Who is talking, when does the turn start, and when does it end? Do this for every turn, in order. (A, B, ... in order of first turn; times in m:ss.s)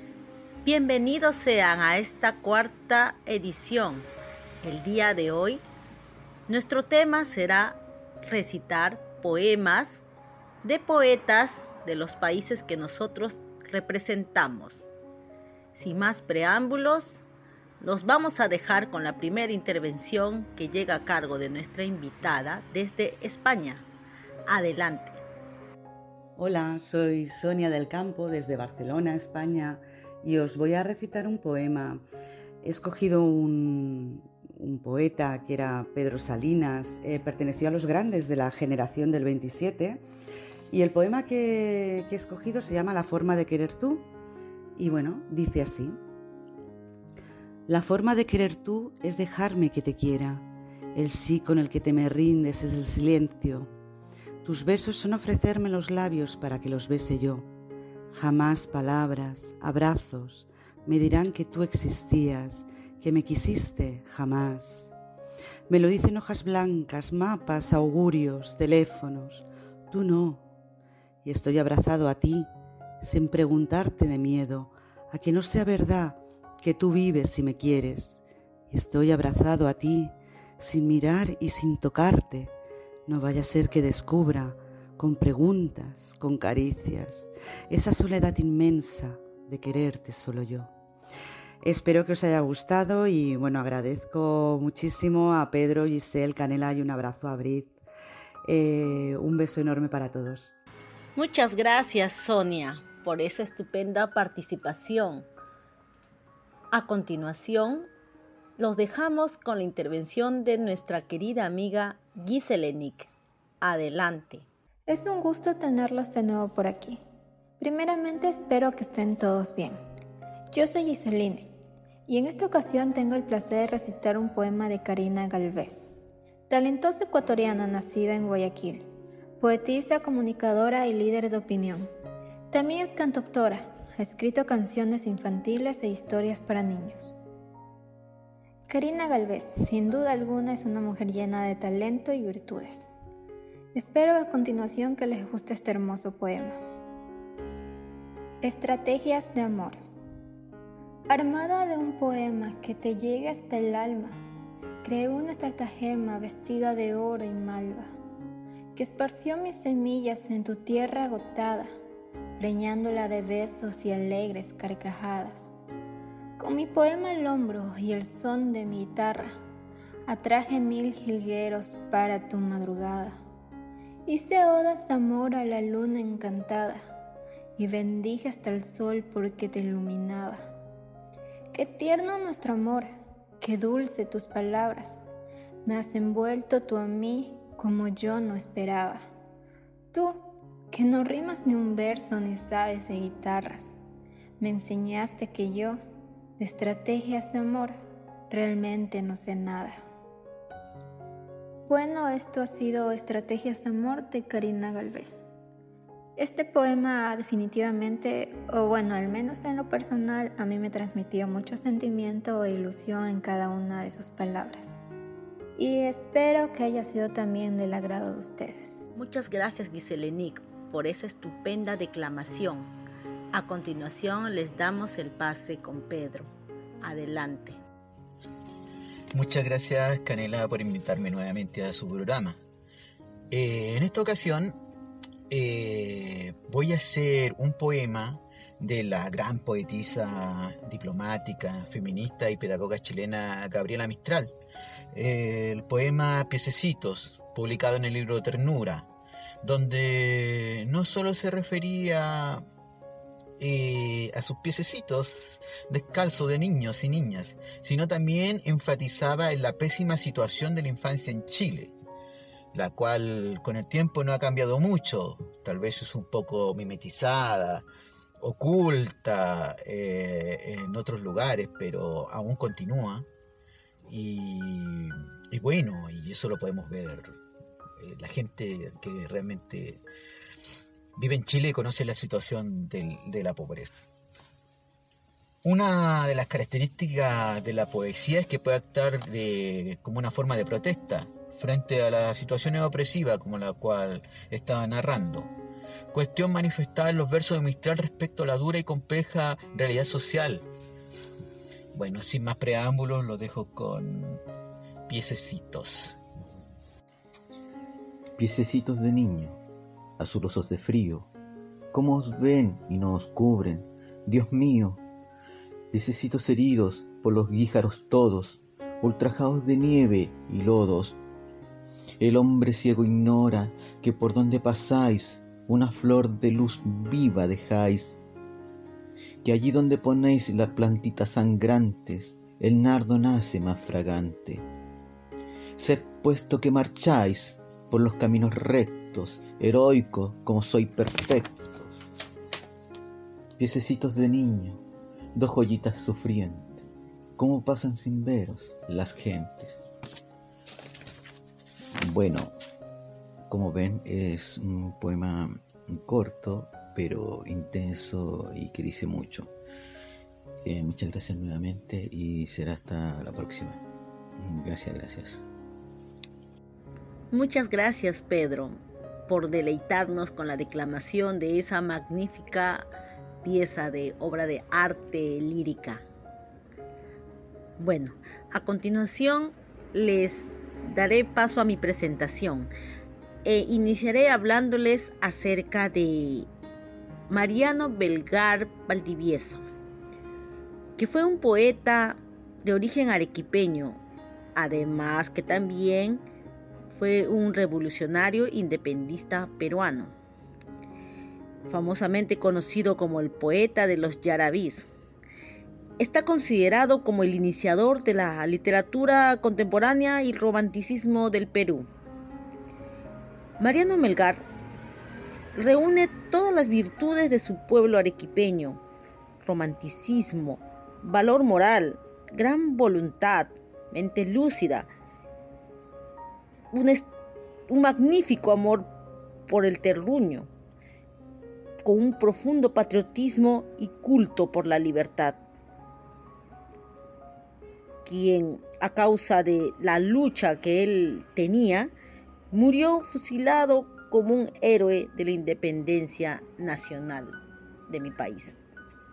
0:00.6-0:04.1 A
0:04.6-0:05.6 A
0:06.5-0:10.0 A
0:10.6-0:14.8 A
0:15.7-0:17.2 A
0:17.8-0:23.9 A
0:24.5-0:25.2 A
0:26.4-0:32.0 B
0:32.6-0:40.0 B
0:40.7-0:44.1 B
0:44.8-0:46.0 B
0:47.7-0:53.7 B
0:54.4-0:57.5 B
0:58.1-1:04.9 B
1:05.7-1:10.4 B
1:11.2-1:12.5 B
1:13.0-1:22.5 B
1:23.0-1:30.7 B
1:31.6-1:37.8 B
1:38.4-1:40.5 B
1:41.1-1:45.3 A
1:46.7-1:47.9 A
1:48.6-1:53.1 A
1:53.6-1:54.5 A
1:54.9-1:57.0 C
1:57.6-1:59.8 C
2:00.5-2:01.5 C
2:02.1-2:05.8 C
2:06.5-2:08.8 C
2:09.4-2:11.8 C
2:12.5-2:17.2 C
2:18.7-2:22.9 C
2:23.7-2:26.6 C
2:28.4-2:29.8 C
2:31.1-2:34.1 C
2:34.8-2:37.9 C
2:38.7-2:41.7 C
2:42.4-2:45.5 C
2:46.4-2:49.3 C
2:50.1-2:53.1 C
2:54.0-2:56.8 C
2:57.6-3:00.4 C
3:01.5-3:02.9 C
3:03.4-3:05.0 C
3:05.6-3:09.0 C
3:10.7-3:13.7 C
3:14.4-3:15.8 C
3:16.4-3:17.7 C
3:18.3-3:19.7 C
3:21.6-3:25.2 C
3:26.2-3:34.8 C
3:35.6-3:38.8 C
3:38.9-3:42.7 A
3:43.3-3:47.6 A
3:49.1-3:52.4 D
3:53.3-3:54.6 D
3:55.3-4:04.3 D
4:04.9-4:08.9 D
4:09.4-4:12.4 D
4:13.4-4:21.8 D
4:22.5-4:27.6 D
4:28.2-4:33.0 D
4:33.9-4:37.2 D
4:37.8-4:39.8 D
4:41.0-4:43.7 D
4:41.2-4:41.7 E
4:45.4-4:46.2 D
4:46.1-4:48.8 E
4:46.8-4:47.2 D
4:48.7-4:55.3 D
4:50.0-4:50.5 E
4:52.4-4:53.2 E
4:54.4-4:55.2 E
4:55.9-5:00.5 D
4:56.1-4:58.0 E
5:01.7-5:04.2 D
5:04.9-5:06.0 D
5:08.2-5:09.4 E
5:10.0-5:11.1 E
5:11.7-5:14.8 E
5:15.7-5:21.0 E
5:22.0-5:28.0 E
5:29.2-5:34.4 E
5:35.6-5:41.8 E
5:43.4-5:44.6 E
5:45.1-5:46.6 E
5:47.2-5:49.6 E
5:51.8-5:52.3 E
5:53.3-5:59.3 E
6:00.4-6:03.6 E
6:04.2-6:05.2 E
6:07.1-6:12.7 A
6:13.2-6:15.8 A
6:17.6-6:22.5 A
6:23.2-6:26.3 A
6:27.1-6:29.4 A
6:30.8-6:33.8 A
6:34.3-6:36.0 A
6:36.7-6:39.9 A
6:41.4-6:44.7 A
6:45.8-6:51.7 A
6:53.4-6:54.2 A
6:55.3-6:58.6 A
6:59.2-7:04.7 A
7:06.5-7:06.9 A
7:07.5-7:08.7 A
7:09.3-7:10.3 A
7:11.6-7:15.2 A
7:17.8-7:21.7 A
7:22.3-7:28.4 A